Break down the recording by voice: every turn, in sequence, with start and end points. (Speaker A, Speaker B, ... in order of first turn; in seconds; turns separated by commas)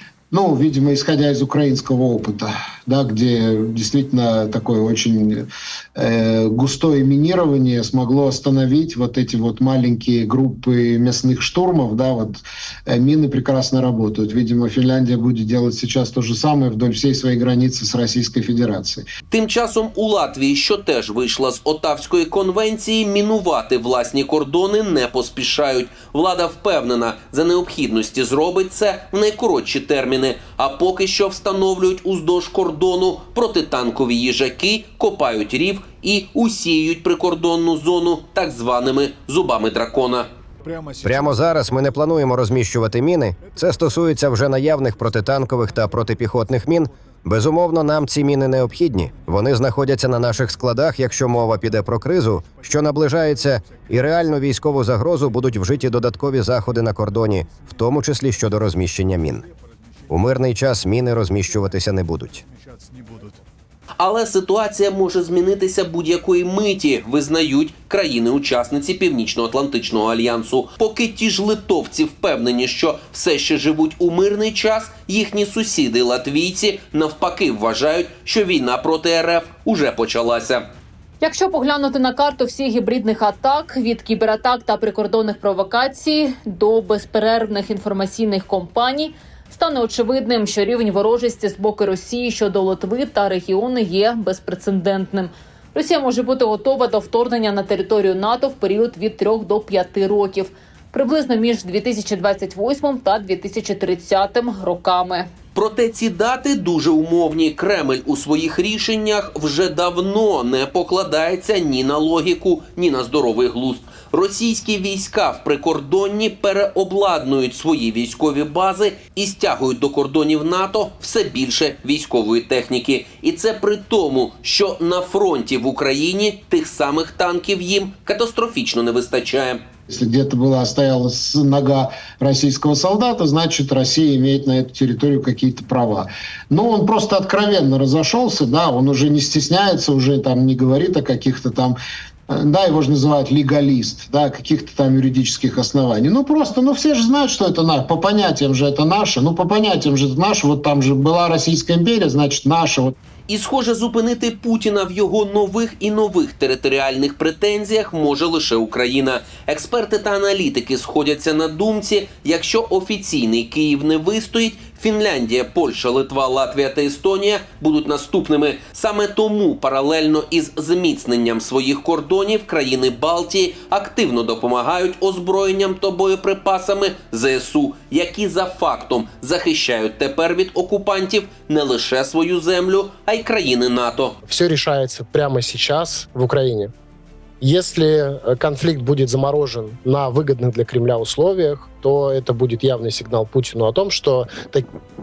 Speaker A: 0.3-19.1, Speaker B: 19.3-40.3, Speaker C: 41.0-59.5, Speaker C: 60.1-62.4, Speaker B: 64.0-80.7, Speaker D: 81.2-105.3, Speaker B: 105.5-129.6, Speaker A: 129.9-141.8, Speaker A: 142.3-152.9, Speaker B: 153.3-184.2, Speaker E: 184.3-186.7, Speaker E: 187.4-194.7